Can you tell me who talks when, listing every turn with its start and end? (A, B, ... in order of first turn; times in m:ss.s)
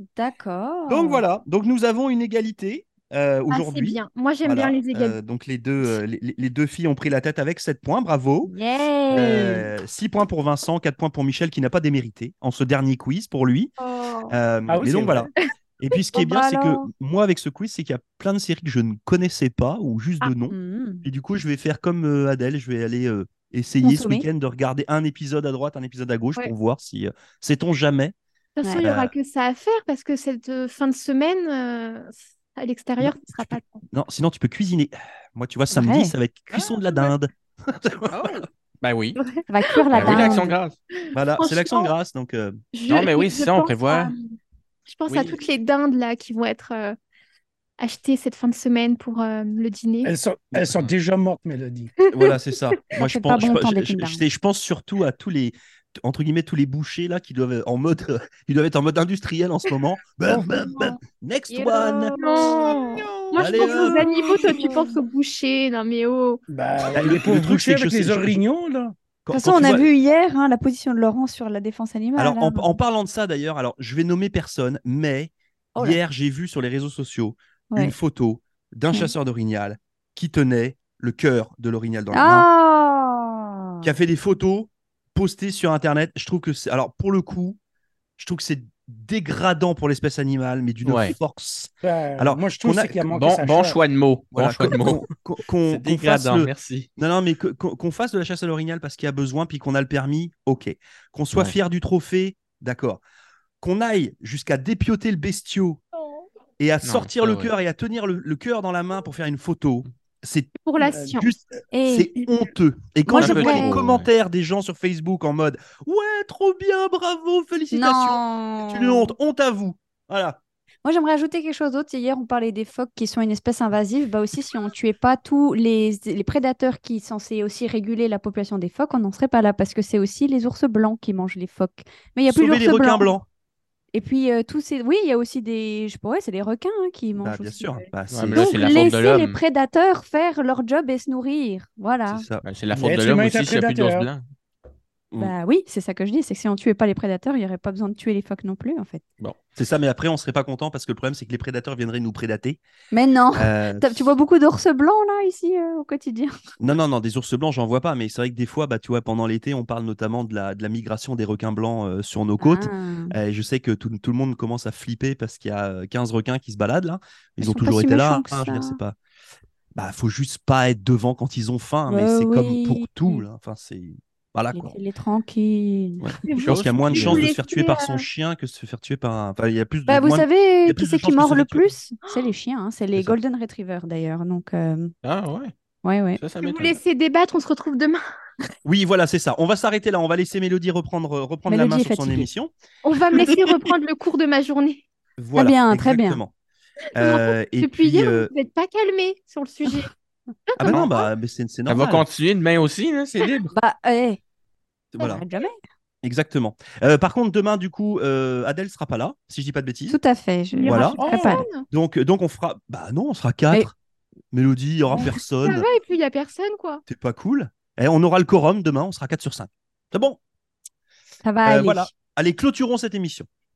0:00.2-0:01.2 A
0:00.9-0:08.5 B
0:03.5-0:05.2 C
0:08.5-0:09.6 A
0:09.1-0:13.7 B
0:09.1-0:09.5 D
0:13.8-0:14.4 C
0:14.3-0:28.1 B
0:14.7-0:15.3 E
0:16.1-0:16.9 A
0:20.5-0:21.0 A
0:23.8-0:24.2 A
0:28.6-0:33.8 C
0:28.8-0:29.1 B
0:33.0-0:38.4 B
0:35.7-0:36.1 A
0:38.1-0:39.2 D
0:39.2-0:40.2 C
0:39.5-0:40.5 A
0:39.9-0:40.8 D
0:40.0-0:40.3 B
0:41.0-0:41.9 C
0:41.1-0:42.6 B
0:42.7-0:44.3 C
0:42.9-0:44.1 D
0:44.9-0:47.0 C
0:45.1-0:45.4 D
0:47.8-0:50.1 C
0:50.0-0:51.9 E
0:52.0-0:52.4 C
0:52.1-1:02.6 B
0:52.9-0:54.2 A
1:01.5-1:04.9 A
1:01.8-1:06.4 C
1:03.3-1:04.1 B
1:06.5-1:08.9 E
1:06.9-1:08.4 B
1:09.2-1:09.9 B
1:09.3-1:12.8 A
1:12.2-1:22.4 B
1:15.7-1:16.0 A
1:22.1-1:23.9 A
1:23.8-1:27.6 B
1:28.2-1:33.1 B
1:30.8-1:31.2 D
1:31.8-1:33.8 E
1:33.1-1:35.1 D
1:34.3-1:43.0 B
1:35.6-1:36.9 D
1:43.6-1:45.8 B
1:46.6-1:50.6 B
1:46.8-1:47.5 D
1:50.6-1:51.3 C
1:50.8-1:51.6 E
1:51.2-2:00.4 B
1:51.7-1:52.1 A
1:53.1-1:54.1 D
1:53.1-1:53.8 A
1:57.7-1:59.1 A
2:00.8-2:13.2 A
2:12.3-2:13.2 B
2:13.9-2:22.2 A
2:17.2-2:18.9 B
2:18.1-2:19.4 D
2:22.1-2:22.4 B
2:22.4-2:24.2 D
2:22.7-2:24.1 E
2:25.2-2:29.0 A
2:29.6-2:32.6 B
2:32.9-2:36.4 A
2:33.3-2:34.1 B
2:36.6-2:49.0 B
2:42.4-2:43.2 A
2:47.4-2:48.8 A
2:49.7-2:54.8 B
2:51.9-2:53.2 A
2:54.5-2:56.5 A
2:56.0-3:01.7 B
2:56.3-2:58.0 C
2:56.4-2:57.3 D
2:59.9-3:04.9 A
3:02.0-3:02.3 C
3:05.0-3:05.5 D
3:05.8-3:06.2 A
3:06.2-3:06.8 D
3:06.4-3:08.0 C
3:08.6-3:12.5 B
3:11.4-3:12.3 A
3:12.8-3:14.8 C
3:15.2-3:16.3 B
3:15.3-3:16.2 A
3:16.9-3:18.3 B
3:16.9-3:19.9 C
3:20.5-3:20.9 C
3:20.6-3:22.1 B
3:21.7-3:23.5 D
3:23.5-3:24.2 A
3:24.9-3:25.2 B
3:25.0-3:25.6 A
3:26.0-3:30.0 B
3:29.9-3:31.5 A
3:30.5-3:31.6 C
3:30.6-3:31.0 B
3:31.0-3:31.4 E
3:31.7-3:33.7 B
3:34.3-3:35.6 B
3:35.4-3:36.8 C
3:36.9-3:40.2 B
3:41.2-3:41.9 A
3:41.4-3:43.3 B